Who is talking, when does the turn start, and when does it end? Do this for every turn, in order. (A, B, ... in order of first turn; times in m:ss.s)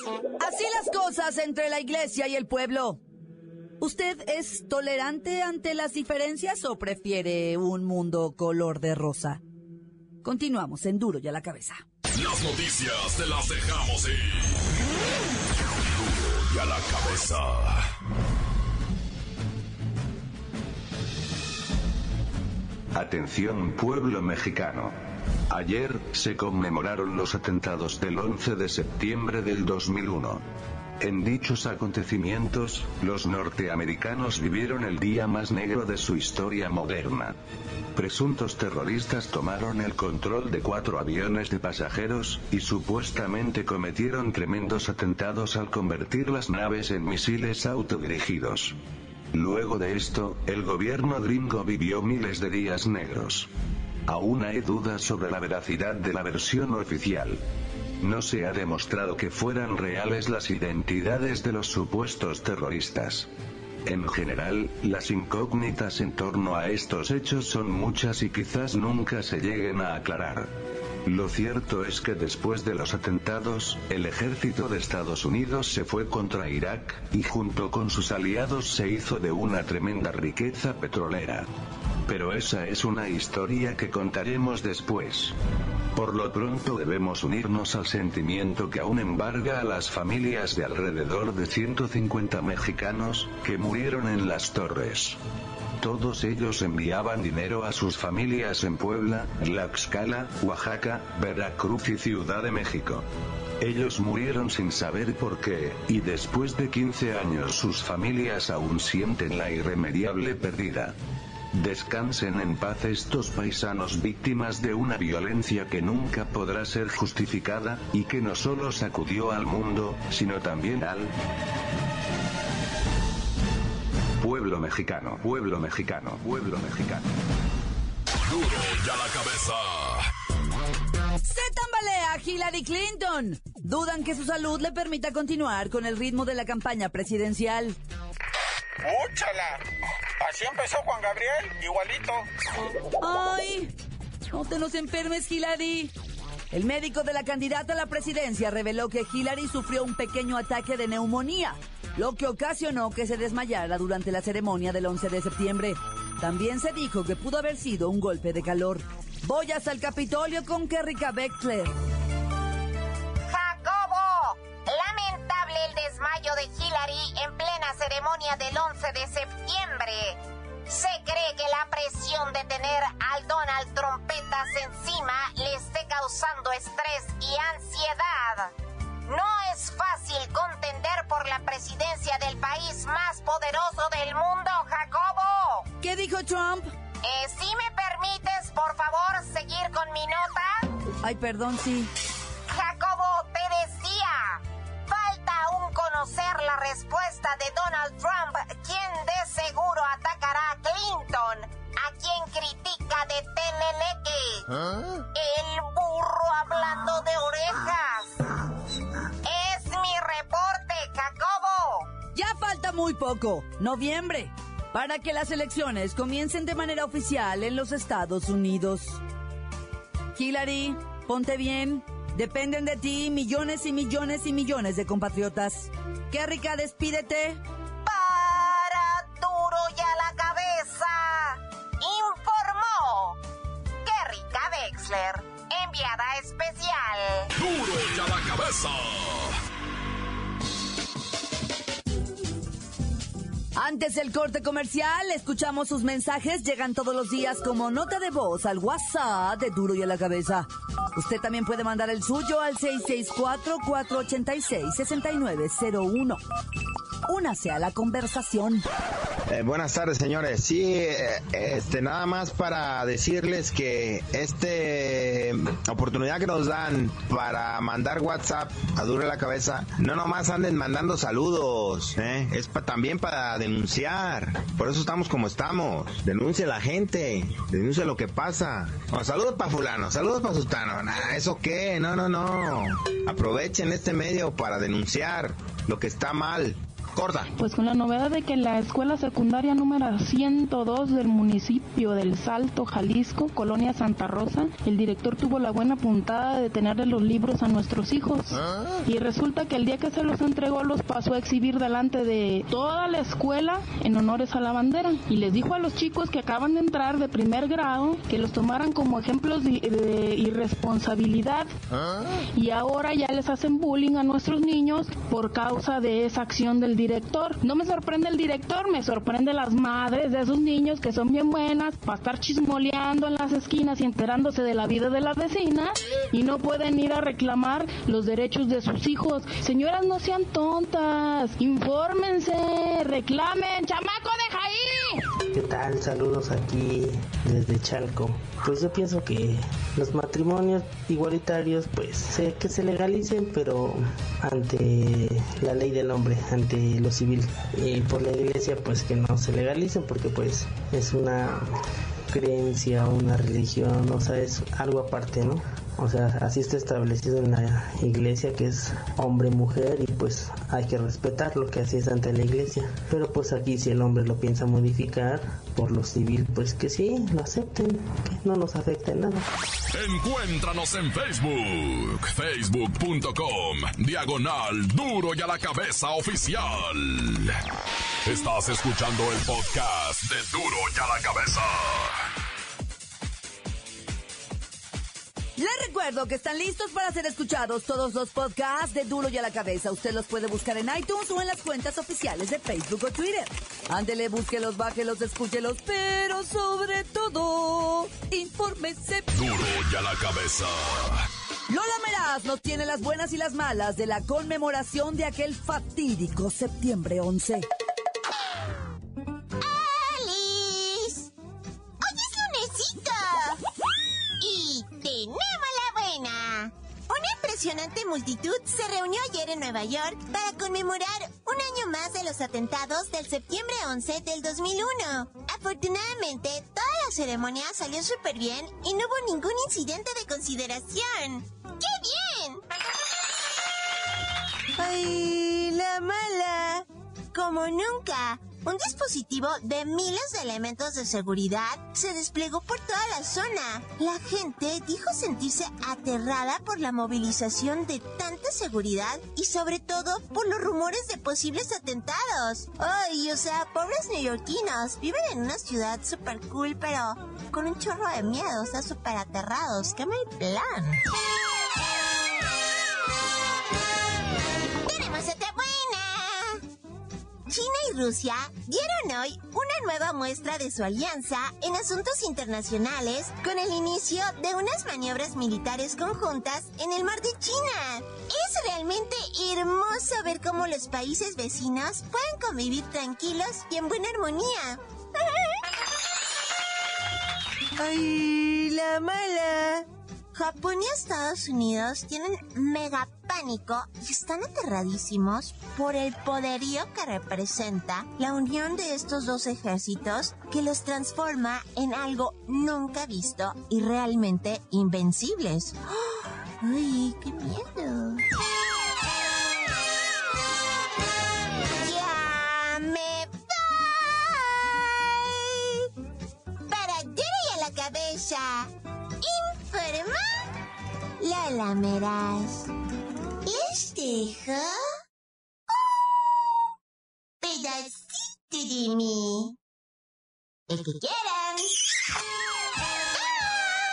0:00.4-0:03.0 A
0:03.8-0:09.4 A
0:10.2-0:11.8 A
0:12.2-0:14.6 B
0:15.8-0:17.9 B
0:23.0-0:24.9 C
0:25.5-0:30.4 C
0:31.0-0:37.4 C
0:38.0-0:48.8 C
0:49.3-0:53.5 C
0:54.1-0:57.4 C
0:58.0-1:03.3 C
1:03.9-1:10.5 C
1:11.0-1:21.5 C
1:22.1-1:25.3 C
1:26.0-1:35.2 C
1:35.8-1:43.1 C
1:43.6-1:51.0 C
1:51.5-2:01.1 C
2:04.2-2:07.1 C
2:08.3-2:10.1 B
2:11.2-2:17.8 A
2:18.8-2:19.6 D
2:20.2-2:22.3 D
2:23.0-2:23.7 A
2:24.3-2:25.9 A
2:26.5-2:41.8 A
2:43.3-2:58.5 E
2:59.1-3:05.7 E
3:05.8-3:06.7 A
3:07.0-3:10.6 E
3:11.0-3:11.9 A
3:12.5-3:24.5 E
3:25.1-3:28.3 E
3:29.2-3:31.9 E
3:32.2-3:39.0 A
3:40.2-3:47.4 A
3:47.8-3:53.2 E
3:53.8-3:57.3 E
3:57.4-3:59.4 B
4:03.6-4:16.2 A
4:17.1-4:18.6 A
4:19.3-4:47.3 F
4:47.4-5:11.5 G
5:12.4-5:35.0 G
5:35.3-5:51.6 H
5:52.1-6:09.3 H
6:09.7-6:17.4 B
6:18.0-6:22.0 B
6:25.4-6:39.1 A
6:39.1-6:41.1 B
6:41.5-6:47.5 A
6:49.4-6:51.1 I
6:51.8-6:53.4 I
6:54.2-7:12.4 I
7:14.6-7:40.8 I
7:44.6-7:46.4 I
7:47.3-8:04.6 I
8:07.6-8:28.0 I
8:31.6-8:35.7 I
8:36.5-8:40.2 I
8:41.0-8:42.5 I
8:43.2-8:44.6 I
8:47.2-8:49.4 I
8:50.5-8:51.5 I